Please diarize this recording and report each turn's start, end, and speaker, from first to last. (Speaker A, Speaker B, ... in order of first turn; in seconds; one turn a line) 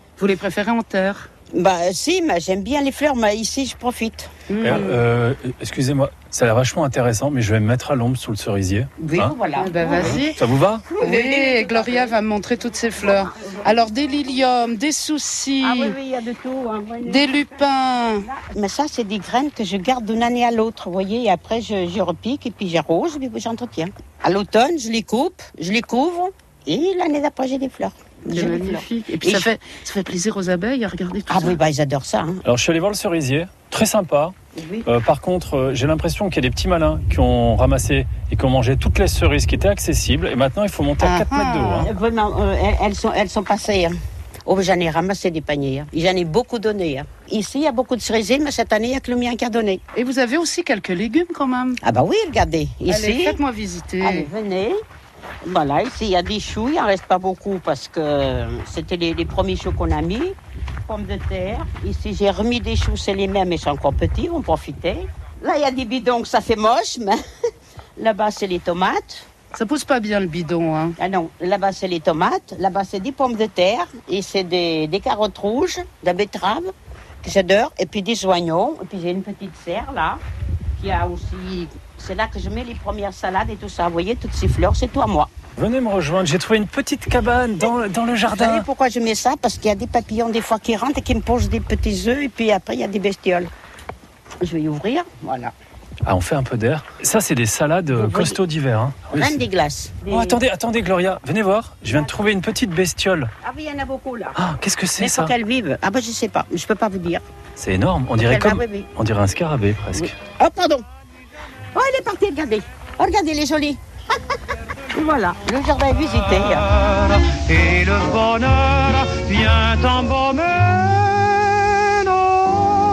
Speaker A: 0.2-1.3
Speaker B: 1.5-4.3
Speaker A: 4.5-5.0
Speaker C: 4.6-9.4
Speaker B: 9.0-10.3
Speaker A: 9.6-10.4
Speaker C: 10.0-10.9
Speaker B: 10.9-12.2
Speaker A: 11.0-15.9
Speaker B: 13.0-13.7
Speaker B: 15.6-17.5
Speaker A: 17.1-18.2
Speaker B: 18.2-29.5
Speaker A: 28.3-31.6
Speaker B: 31.3-32.4
Speaker C: 32.4-34.4
Speaker B: 34.5-34.9
Speaker C: 34.9-41.9
Speaker A: 41.0-41.9
Speaker B: 41.8-43.9
Speaker B: 44.5-49.8
Speaker A: 49.9-51.8
Speaker B: 51.8-53.4
Speaker A: 52.9-54.3
Speaker B: 54.0-54.8
Speaker B: 55.4-67.2
Speaker B: 68.0-69.3
Speaker A: 69.5-71.0
Speaker B: 71.0-76.7
Speaker B: 77.2-80.2
Speaker B: 80.8-85.3
Speaker C: 85.6-88.7
Speaker B: 88.3-93.5
Speaker B: 94.4-95.5
Speaker C: 96.0-99.4
Speaker B: 97.9-98.4
Speaker B: 99.1-100.4
Speaker C: 100.1-103.3
Speaker B: 101.9-102.3
Speaker B: 103.4-104.4
Speaker C: 104.3-105.3
Speaker B: 105.0-107.2
Speaker C: 107.6-110.2
Speaker B: 108.2-108.9
Speaker B: 110.0-110.8
Speaker B: 111.7-113.8
Speaker B: 114.9-116.7
Speaker D: 116.8-122.2